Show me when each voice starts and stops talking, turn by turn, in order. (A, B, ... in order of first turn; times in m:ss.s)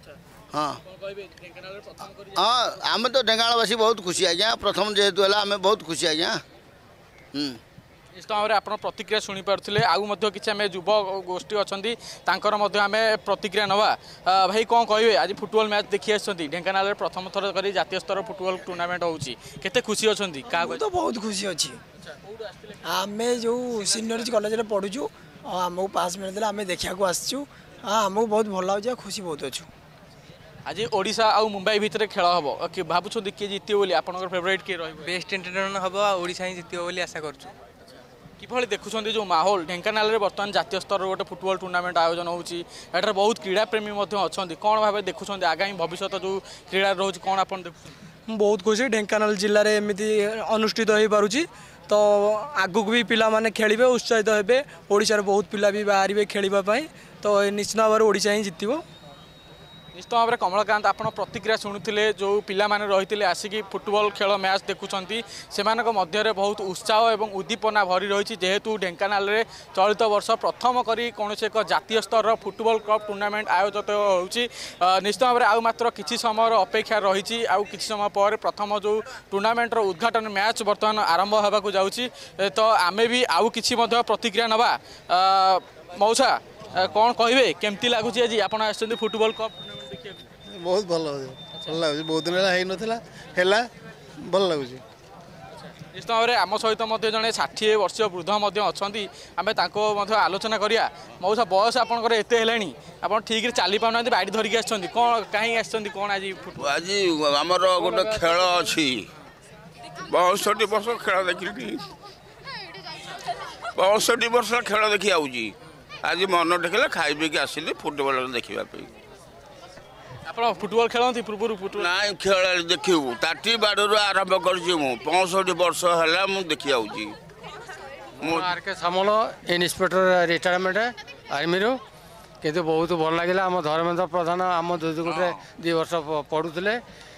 0:00.9-0:02.8 A
0:02.7-0:03.5 B
0:04.2-0:06.4 B
0:08.2-0:20.8 A
0:20.5-0:21.8 C
0:22.1-0:22.8 A
0:22.9-0:29.7 C
0:23.7-0:24.2 A
0:30.6-0:35.1 A
0:35.0-0:37.5 D
0:38.4-0:47.9 A
0:48.3-0:58.8 E
0:59.9-1:30.2 A
1:30.5-1:33.7 F
1:34.2-1:34.8 F
1:35.8-1:46.8 A
1:46.6-1:49.1 G
1:50.1-1:51.8 G
1:53.8-1:58.9 G
2:00.3-2:01.9 A
2:01.8-2:07.2 G
2:08.2-2:08.6 G
2:08.2-2:11.8 H
2:12.4-2:16.8 H
2:15.0-2:15.4 G